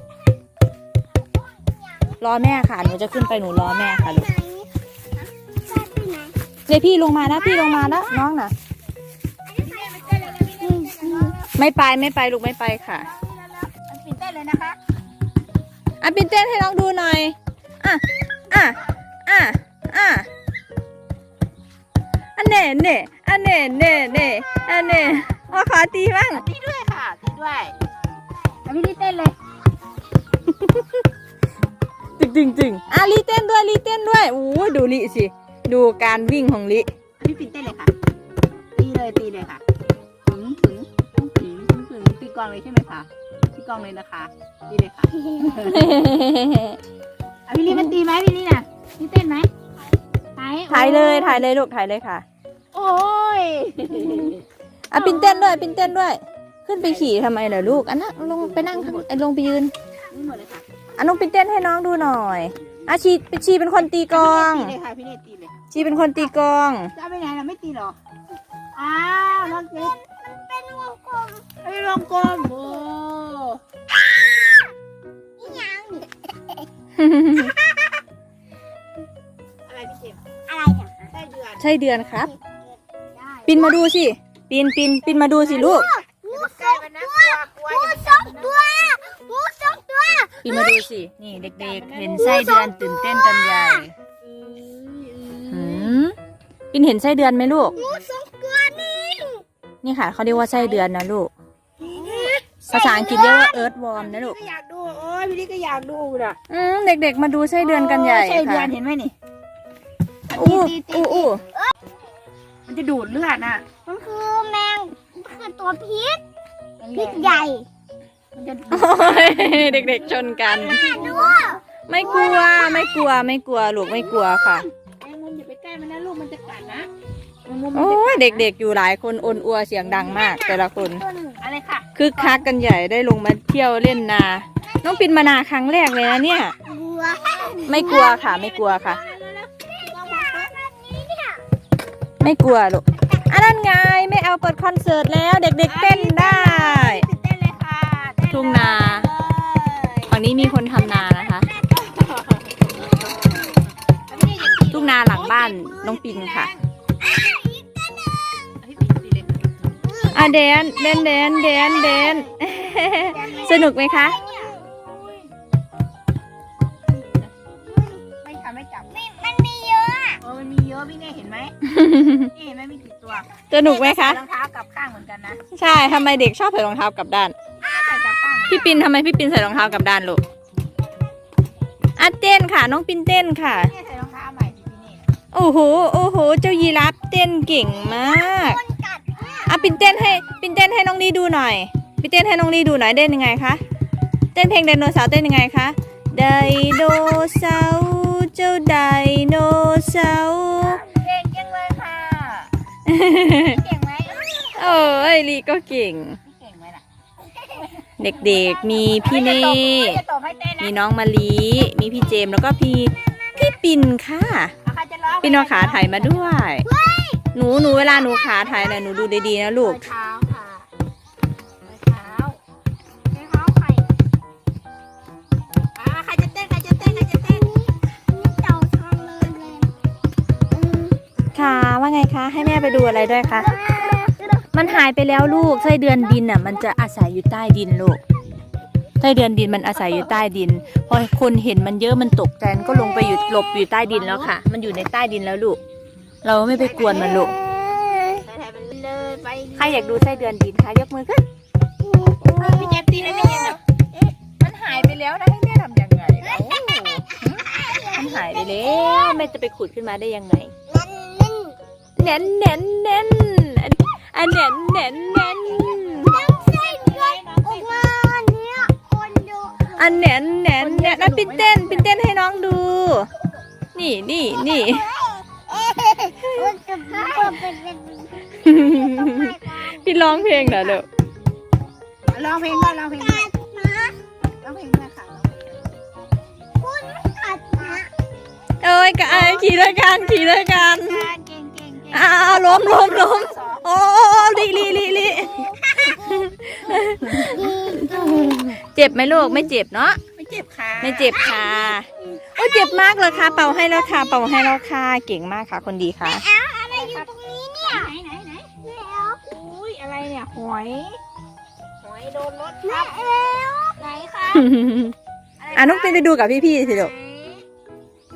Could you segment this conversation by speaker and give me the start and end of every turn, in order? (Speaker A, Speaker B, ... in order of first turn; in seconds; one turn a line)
Speaker A: 1.7-2.1
Speaker B: 2.2-4.3
Speaker A: 3.0-4.7
Speaker A: 5.6-6.3
Speaker B: 6.7-8.5
Speaker C: 7.2-8.2
Speaker A: 9.5-11.3
Speaker C: 9.6-11.5
Speaker B: 11.6-13.1
Speaker C: 12.9-14.8
Speaker B: 16.0-20.3
Speaker B: 22.4-26.4
Speaker C: 26.3-27.7
Speaker C: 28.6-29.4
Speaker B: 30.4-31.0
Speaker B: 32.2-36.9
Speaker C: 37.2-37.9
Speaker C: 38.8-39.6
Speaker C: 40.2-46.0
Speaker A: 45.1-45.7
Speaker B: 45.6-46.8
Speaker C: 47.5-49.5
Speaker C: 50.4-51.4
Speaker B: 50.7-52.2
Speaker C: 52.7-54.4
Speaker B: 54.9-59.7
Speaker A: 54.9-55.6
Speaker C: 56.8-57.1
Speaker C: 58.1-59.1
Speaker C: 60.1-60.6
Speaker B: 61.0-64.8
Speaker C: 64.1-65.6
Speaker B: 65.7-66.9
Speaker C: 66.9-68.0
Speaker C: 68.7-69.9
Speaker A: 69.7-71.4
Speaker C: 71.6-73.6
Speaker A: 74.0-74.7
Speaker A: 75.4-76.7
Speaker B: 77.0-77.5
Speaker A: 77.4-78.0
Speaker C: 79.7-80.2
Speaker A: 80.5-81.1
Speaker C: 81.1-81.6
Speaker B: 81.6-82.3
Speaker A: 82.3-82.8
Speaker B: 83.5-85.9
Speaker C: 85.1-88.5
Speaker A: 85.5-90.8
Speaker B: 90.4-93.9
Speaker C: 91.3-92.6
Speaker A: 92.2-93.9
Speaker C: 94.2-95.9
Speaker B: 95.5-96.2
Speaker B: 96.7-97.8
Speaker C: 97.7-98.0
Speaker A: 97.7-99.4
Speaker B: 99.8-101.3
Speaker C: 100.3-100.8
Speaker C: 101.8-106.4
Speaker A: 102.0-103.3
Speaker B: 102.7-104.3
Speaker B: 106.5-108.7
Speaker C: 107.5-109.1
Speaker B: 110.3-111.4
Speaker C: 110.3-111.3
Speaker C: 112.7-113.7
Speaker A: 113.8-116.2
Speaker C: 116.8-117.5
Speaker A: 116.9-117.7
Speaker C: 118.3-121.4
Speaker B: 118.7-121.2
Speaker A: 120.5-123.0
Speaker B: 121.9-124.7
Speaker C: 125.0-126.9
Speaker C: 127.4-128.5
Speaker B: 127.7-131.1
Speaker A: 130.0-131.4
Speaker C: 131.4-132.5
Speaker B: 131.9-136.5
Speaker A: 136.6-138.1
Speaker C: 137.3-140.5
Speaker B: 137.6-139.0
Speaker A: 140.0-141.4
Speaker B: 142.2-147.0
Speaker C: 145.6-150.2
Speaker B: 148.3-149.1
Speaker B: 150.1-151.5
Speaker A: 150.6-151.1
Speaker C: 151.6-153.5
Speaker A: 152.8-153.7
Speaker C: 154.1-156.6
Speaker B: 154.7-156.5
Speaker A: 157.0-157.8
Speaker C: 158.7-159.7
Speaker A: 159.8-162.2
Speaker B: 160.1-164.2
Speaker C: 161.8-162.2
Speaker C: 163.0-163.6
Speaker A: 163.3-164.6
Speaker C: 166.9-169.0
Speaker A: 168.9-170.2
Speaker C: 170.2-171.5
Speaker B: 171.6-172.3
Speaker C: 172.3-175.4
Speaker B: 173.5-174.2
Speaker B: 175.5-177.3
Speaker C: 177.6-178.9
Speaker B: 178.5-180.2
Speaker B: 182.0-183.7
Speaker C: 183.4-185.0
Speaker B: 185.3-188.6
Speaker A: 187.7-190.1
Speaker B: 189.4-193.6
Speaker B: 194.3-200.8
Speaker C: 200.6-202.5
Speaker B: 202.8-203.6
Speaker C: 203.3-204.8
Speaker B: 204.5-206.2
Speaker C: 206.2-210.8
Speaker B: 208.0-210.0
Speaker B: 210.6-214.5
Speaker C: 214.6-216.4
Speaker B: 215.2-216.7
Speaker A: 216.6-217.2
Speaker B: 217.3-219.8
Speaker A: 218.4-218.8
Speaker C: 219.6-220.7
Speaker C: 221.6-222.4
Speaker C: 223.1-223.8
Speaker C: 225.8-227.5
Speaker A: 226.8-229.7
Speaker A: 230.5-230.9
Speaker B: 231.3-233.6
Speaker A: 232.4-234.8
Speaker B: 234.5-238.0
Speaker A: 235.3-235.7
Speaker B: 239.0-245.6
Speaker A: 242.8-243.1
Speaker C: 243.8-244.3
Speaker B: 246.2-247.3
Speaker C: 246.6-247.3
Speaker A: 246.8-248.2
Speaker C: 248.2-250.3
Speaker B: 249.6-251.2
Speaker A: 251.8-253.5
Speaker B: 252.4-253.6
Speaker C: 252.4-253.6
Speaker B: 254.4-260.5
Speaker A: 256.3-259.2
Speaker A: 260.7-261.6
Speaker B: 262.0-266.2
Speaker A: 265.6-270.0
Speaker C: 266.0-267.9
Speaker B: 269.7-273.1
Speaker C: 270.6-271.9
Speaker B: 273.7-274.9
Speaker A: 274.4-280.8
Speaker C: 276.9-277.3
Speaker B: 278.4-280.9
Speaker C: 282.1-283.3
Speaker A: 282.4-284.0
Speaker C: 284.4-285.6
Speaker A: 286.6-287.9
Speaker B: 288.6-291.1
Speaker C: 289.0-293.7
Speaker B: 291.9-300.0
Speaker A: 297.1-299.5
Speaker C: 300.1-301.1
Speaker B: 300.8-306.2
Speaker A: 301.1-304.6
Speaker A: 306.0-307.9
Speaker C: 306.7-308.5
Speaker A: 308.6-309.2
Speaker C: 309.2-311.0
Speaker C: 311.8-313.2
Speaker A: 312.6-313.8
Speaker C: 313.7-314.5
Speaker B: 314.3-314.9
Speaker C: 315.4-316.1
Speaker B: 315.5-316.9
Speaker A: 316.6-317.4